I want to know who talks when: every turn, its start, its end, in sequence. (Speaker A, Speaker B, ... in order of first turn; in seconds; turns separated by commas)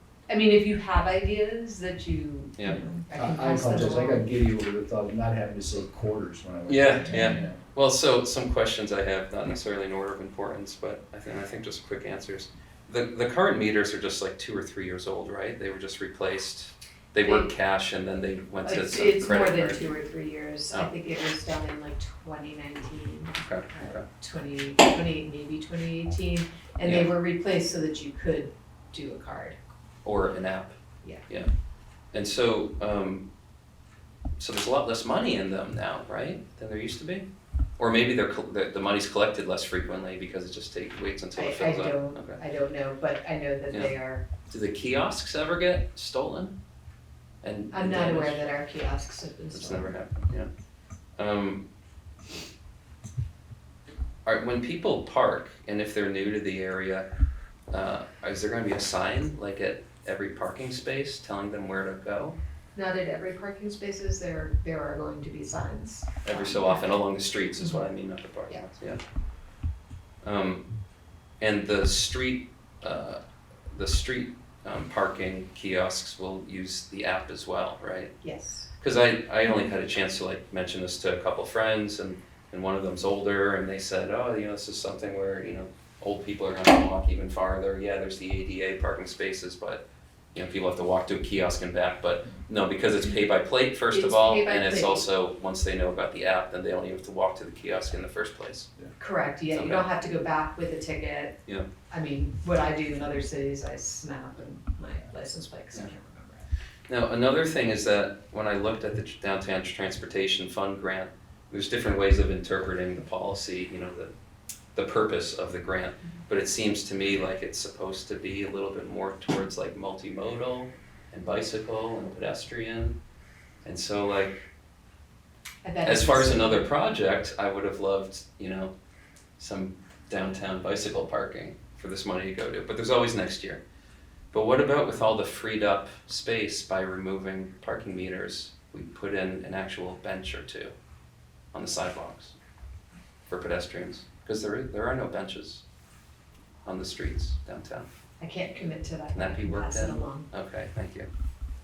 Speaker A: 0.3-4.2, Speaker B: 2.6-2.8, Speaker C: 3.1-7.6, Speaker B: 6.7-19.9, Speaker A: 7.1-7.5, Speaker A: 17.2-17.5, Speaker A: 18.6-29.6, Speaker B: 23.4-24.1, Speaker B: 26.8-27.1, Speaker B: 30.0-30.8, Speaker B: 32.1-33.3, Speaker B: 34.4-37.3, Speaker B: 37.8-42.4, Speaker A: 41.4-44.3, Speaker B: 44.5-46.5, Speaker B: 47.4-48.4, Speaker A: 47.7-49.9, Speaker B: 49.5-50.5, Speaker B: 51.2-51.6, Speaker B: 54.2-57.1, Speaker B: 57.7-62.4, Speaker A: 62.8-66.9, Speaker B: 66.2-69.0, Speaker A: 67.6-67.9, Speaker B: 70.2-70.7, Speaker B: 71.4-73.2, Speaker B: 73.7-78.1, Speaker A: 78.2-78.7, Speaker B: 78.8-89.8, Speaker B: 90.3-98.7, Speaker A: 93.9-95.0, Speaker A: 99.0-106.4, Speaker B: 99.5-99.8, Speaker B: 106.9-114.1, Speaker B: 114.8-123.0, Speaker B: 123.6-124.4, Speaker A: 125.6-126.6, Speaker B: 125.8-128.7, Speaker B: 129.4-133.6, Speaker B: 134.3-140.7, Speaker B: 141.5-142.3, Speaker B: 143.3-145.6, Speaker B: 146.6-147.9, Speaker A: 148.2-150.3, Speaker B: 149.1-151.1